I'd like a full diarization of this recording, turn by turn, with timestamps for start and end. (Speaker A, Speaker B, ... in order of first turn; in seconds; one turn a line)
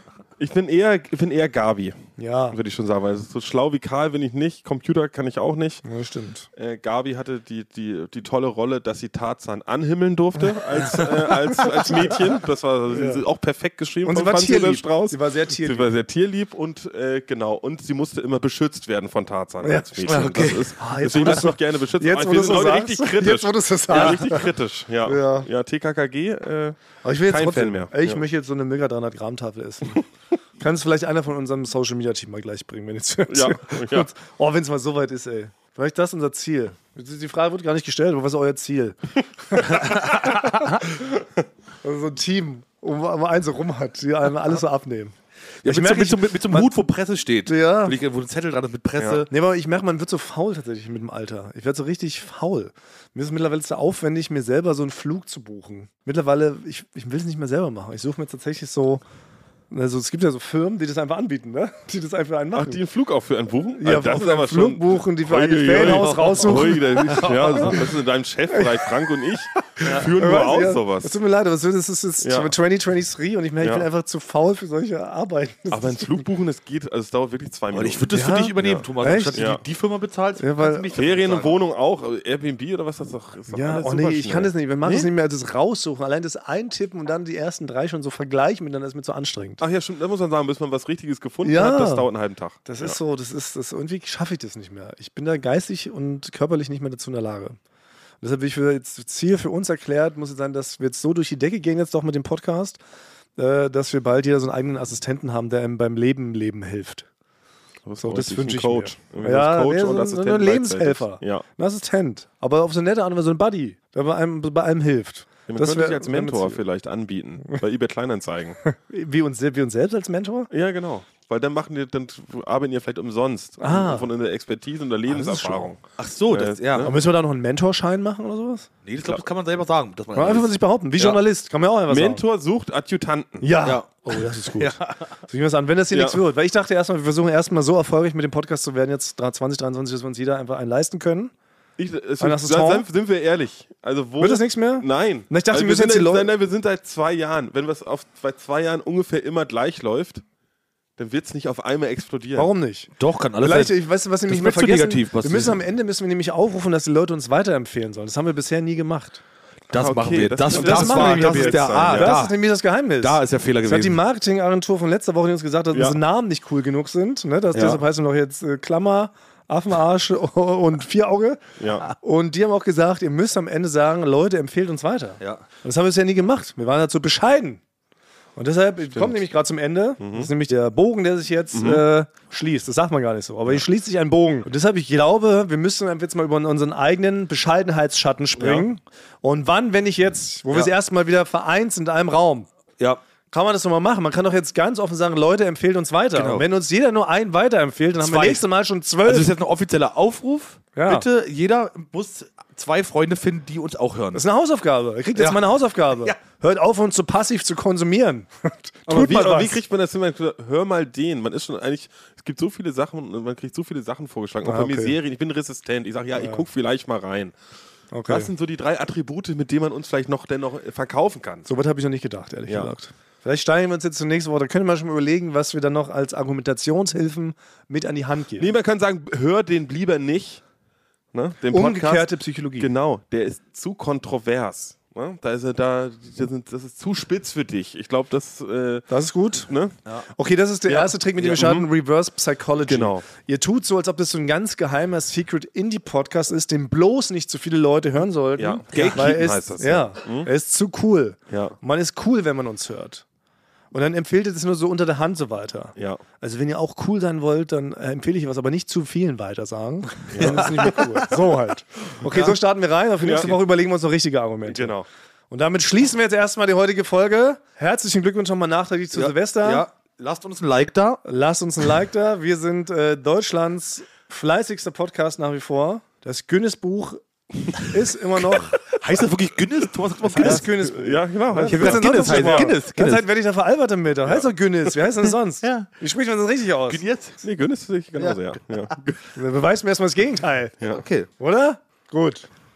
Speaker A: 0.4-2.0
Speaker B: 2.2-2.6
Speaker A: 2.5-5.8
Speaker B: 5.8-6.5
Speaker A: 6.6-28.2
Speaker B: 10.8-12.1
Speaker B: 12.9-13.2
Speaker B: 14.1-15.9
Speaker B: 19.6-20.2
Speaker C: 20.1-20.8
Speaker B: 20.8-24.5
Speaker B: 25.1-25.5
Speaker B: 27.0-30.0
Speaker B: 30.6-41.1
Speaker A: 33.3-34.1
Speaker C: 39.8-40.6
Speaker B: 41.8-46.7
Speaker C: 45.6-49.3
Speaker B: 47.5-48.0
Speaker A: 49.0-49.2
Speaker B: 49.3-59.0
Speaker B: 59.7-62.8
Speaker A: 62.5-71.2
Speaker B: 63.8-67.8
Speaker C: 67.1-67.8
Speaker B: 68.5-68.8
Speaker B: 69.6-76.2
Speaker C: 69.8-70.1
Speaker A: 72.2-72.5
Speaker A: 73.6-73.9
Speaker A: 75.7-79.6
Speaker C: 77.7-81.6
Speaker B: 78.1-79.5
Speaker B: 80.4-81.0
Speaker A: 80.9-85.1
Speaker B: 83.5-89.6
Speaker A: 89.6-93.0
Speaker B: 91.4-92.1
Speaker B: 92.7-97.6
Speaker B: 98.2-102.8
Speaker B: 103.4-107.1
Speaker A: 107.8-111.4
Speaker B: 108.0-116.6
Speaker A: 115.5-118.6
Speaker B: 118.7-120.5
Speaker A: 120.5-126.9
Speaker B: 123.6-124.1
Speaker B: 125.1-125.8
Speaker C: 126.0-126.9
Speaker B: 126.8-128.7
Speaker C: 128.8-131.2
Speaker B: 130.2-132.2
Speaker A: 131.9-133.5
Speaker B: 133.4-141.3
Speaker C: 133.6-135.1
Speaker A: 135.9-136.2
Speaker A: 141.8-150.2
Speaker B: 142.2-142.9
Speaker B: 144.2-146.3
Speaker A: 151.0-152.5
Speaker B: 152.3-159.2
Speaker C: 153.0-153.8
Speaker C: 154.3-155.6
Speaker C: 159.7-162.4
Speaker A: 159.7-162.2
Speaker B: 160.5-171.4
Speaker C: 163.0-164.0
Speaker A: 165.7-166.0
Speaker C: 167.5-167.8
Speaker A: 171.6-171.9
Speaker B: 172.0-177.6
Speaker B: 178.4-192.5
Speaker A: 178.9-179.2
Speaker A: 180.0-180.3
Speaker A: 181.5-181.8
Speaker A: 188.4-188.7
Speaker B: 193.3-199.3
Speaker C: 196.2-196.5
Speaker C: 198.0-198.4
Speaker C: 199.1-204.2
Speaker B: 200.8-201.1
Speaker B: 204.1-209.6
Speaker C: 205.2-205.4
Speaker A: 208.9-217.3
Speaker B: 214.4-215.0
Speaker B: 216.2-216.4
Speaker B: 217.9-218.3
Speaker A: 218.1-221.5
Speaker B: 221.4-228.5
Speaker A: 228.4-230.4
Speaker A: 231.1-238.9
Speaker B: 231.5-232.7
Speaker B: 238.9-239.5
Speaker A: 239.5-239.7
Speaker B: 240.2-253.1
Speaker C: 240.7-241.4
Speaker A: 241.3-241.7
Speaker A: 242.7-243.0
Speaker A: 248.4-250.3
Speaker C: 248.7-249.2
Speaker A: 251.3-251.6
Speaker B: 253.7-264.8
Speaker A: 255.8-256.0
Speaker A: 260.1-261.0
Speaker A: 262.0-262.3
Speaker A: 263.0-263.4
Speaker A: 264.4-264.9
Speaker B: 265.3-269.6
Speaker C: 268.9-271.0
Speaker B: 271.1-278.6
Speaker C: 278.2-280.5
Speaker B: 280.2-286.8
Speaker A: 280.2-282.5
Speaker C: 281.4-283.1
Speaker A: 284.1-284.3
Speaker C: 285.4-285.7
Speaker C: 286.7-287.2
Speaker A: 287.2-289.0
Speaker C: 287.9-288.4
Speaker B: 289.1-290.6
Speaker C: 290.7-291.1
Speaker B: 291.2-292.3